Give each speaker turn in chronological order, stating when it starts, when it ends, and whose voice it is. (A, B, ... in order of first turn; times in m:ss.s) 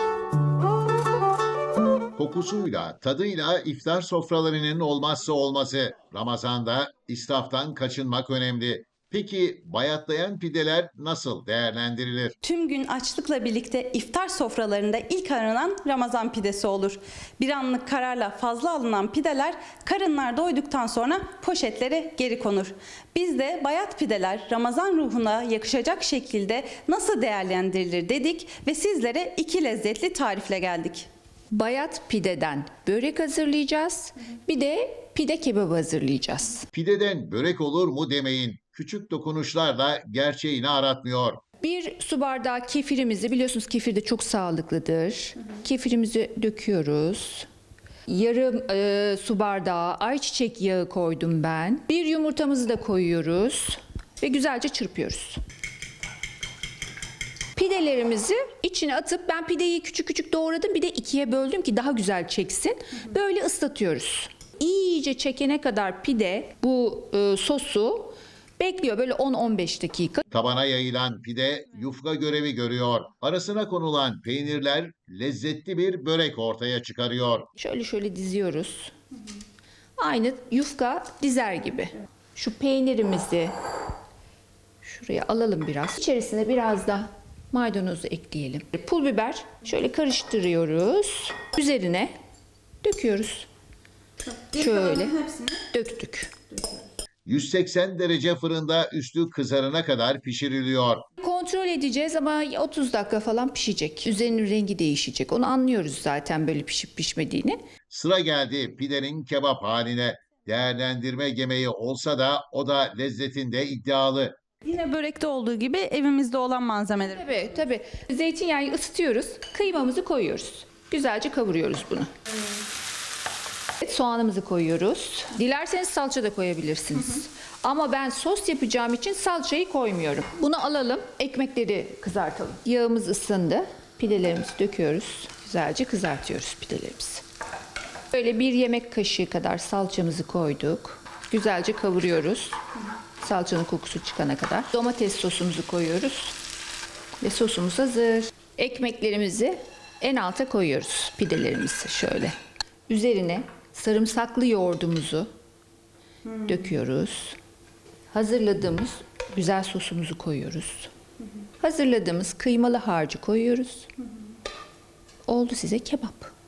0:02.1-0:12.3 A
0:12.4-0:31.1 B
0:31.5-0:36.7 C
0:36.7-0:41.4 A
0:41.6-0:47.5 C
0:48.1-0:55.4 C
0:57.6-1:10.2 C
1:10.3-1:17.5 A
1:17.6-1:18.9 C
1:20.0-1:23.5 C
1:24.8-1:32.1 C
1:32.8-1:33.5 C
1:34.3-1:35.6 B
1:34.5-1:36.3 C
1:37.2-1:41.0 A
1:41.2-1:47.6 C
1:47.9-1:54.4 A
1:54.6-1:57.3 B
1:57.1-2:02.1 C
2:03.8-2:17.2 C
2:18.1-2:22.6 C
2:23.2-2:26.4 C
2:27.2-2:32.4 C
2:32.9-2:35.3 C
2:36.3-2:37.4 C
2:38.1-2:40.9 C
2:41.6-2:43.9 C
2:45.3-2:46.3 C